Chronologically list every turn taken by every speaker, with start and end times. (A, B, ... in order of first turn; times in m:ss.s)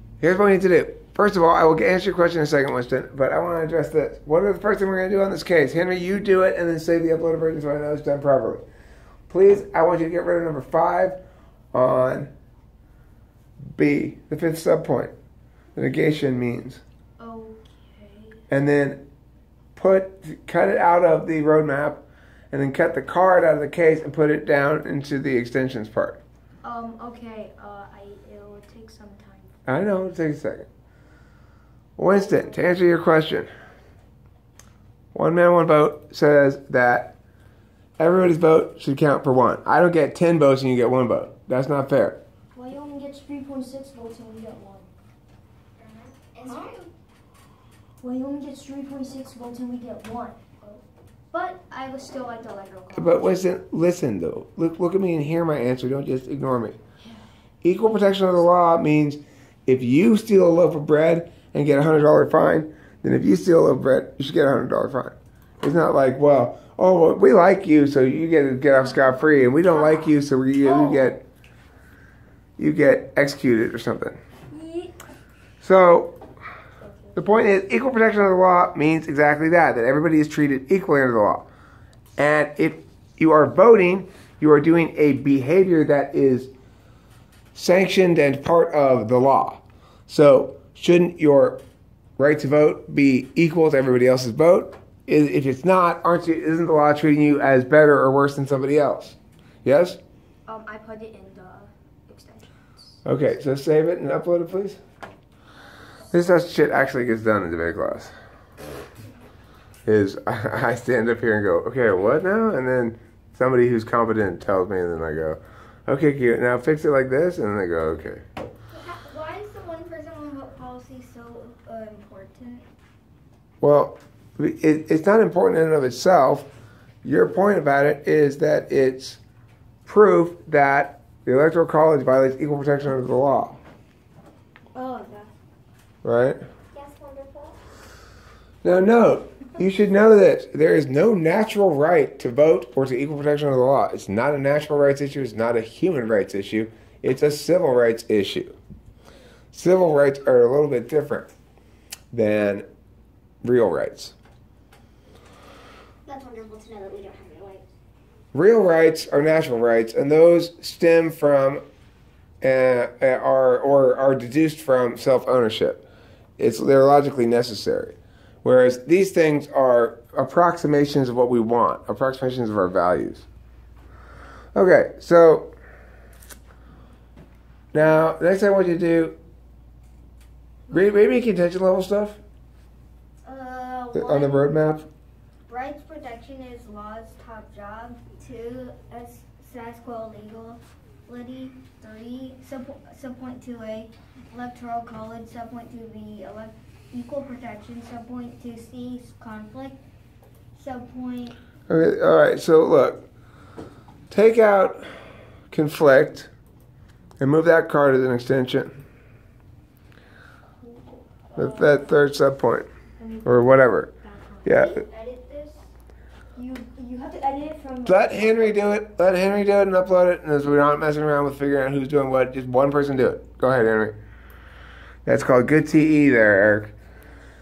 0:00.2-0:08.6 A
0:09.3-0:11.2 A
0:11.7-0:12.3 A
0:13.8-0:15.1 A
0:15.8-0:16.8 A
0:17.2-0:18.4 B
0:18.5-0:19.0 A
0:19.7-0:26.2 A
0:26.6-0:29.6 B
0:29.6-0:30.7 A
0:32.0-0:33.5 A
0:32.1-0:32.8 B
0:35.1-0:37.2 A
0:38.0-0:42.2 A
0:42.5-0:44.9 B
0:45.8-0:46.9 C
0:46.4-0:46.8 B
0:48.0-0:50.8 B
0:51.3-0:53.5 B
0:52.9-0:56.8 A
0:57.6-1:11.2 A
1:08.7-1:10.1 B
1:10.6-1:11.1 B
1:12.6-1:14.2 A
1:14.5-1:15.0 B
1:15.6-1:16.1 A
1:16.8-1:17.2 B
1:17.1-1:21.5 A
1:22.2-1:26.5 A
1:27.5-1:31.6 A
1:32.2-1:40.0 A
1:40.5-1:43.0 B
1:43.0-1:44.8 A
1:46.1-1:48.1 A
1:49.8-1:58.2 A
1:58.7-2:02.6 C
2:03.6-2:06.5 A
2:07.0-2:09.2 A
2:09.8-2:13.6 A
2:14.8-2:15.2 B
2:16.0-2:16.4 A
2:16.7-2:17.6 C
2:18.6-2:28.6 A
2:29.5-2:31.3 A
2:32.1-2:32.6 A
2:33.4-2:34.1 A
2:36.1-2:37.6 C
2:38.3-2:41.6 A
2:42.4-2:45.8 A
2:46.4-2:53.3 A
2:54.5-2:55.5 A
2:57.7-2:59.2 A
3:00.7-3:02.2 A
3:03.2-3:04.5 C
3:03.9-3:04.9 A
3:05.5-3:19.8 C
3:20.5-3:21.3 C
3:21.7-3:23.0 A
3:24.1-3:24.8 A
3:25.5-3:26.3 A
3:27.2-3:28.8 A
3:30.6-3:32.0 B
3:31.4-3:32.7 A
3:33.0-3:34.8 B
3:33.2-3:33.9 A
3:34.4-3:34.8 A
3:34.8-3:35.6 C
3:36.4-3:38.6 B
3:37.8-3:44.0 A
3:45.0-3:46.7 A